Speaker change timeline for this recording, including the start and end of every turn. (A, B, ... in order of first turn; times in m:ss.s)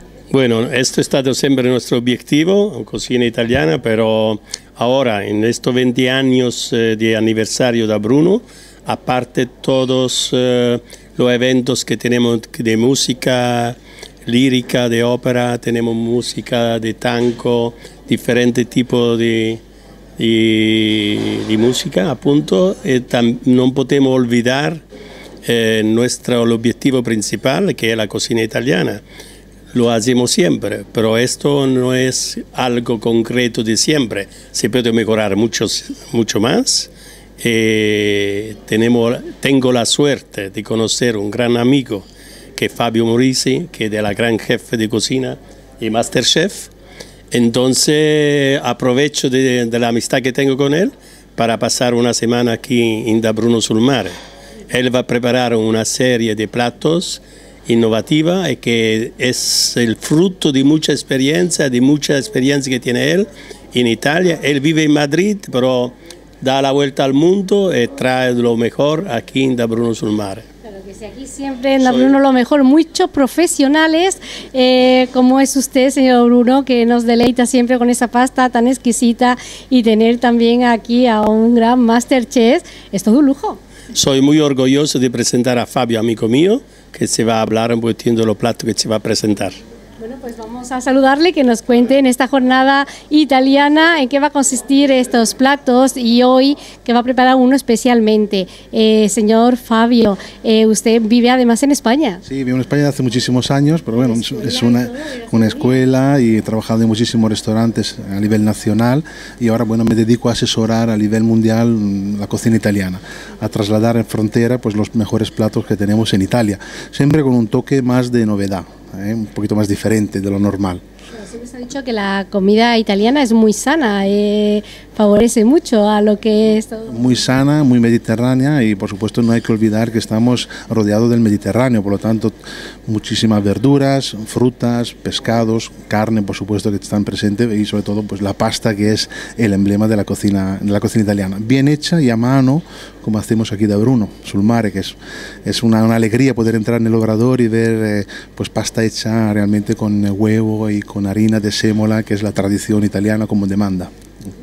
0:00.3-0:19.6 A
0:20.2-0:24.8 A
0:25.4-0:29.0 A
0:29.7-0:42.0 A
0:42.6-0:46.7 A
0:47.3-0:54.2 A
0:54.7-1:10.4 A
1:10.6-1:23.6 B
1:11.8-1:12.2 A
1:23.9-1:29.6 A
1:30.0-1:42.2 B
1:42.2-2:00.8 C
1:43.9-1:45.8 B
2:01.1-2:07.2 B
2:06.9-2:12.4 C
2:12.9-2:33.9 C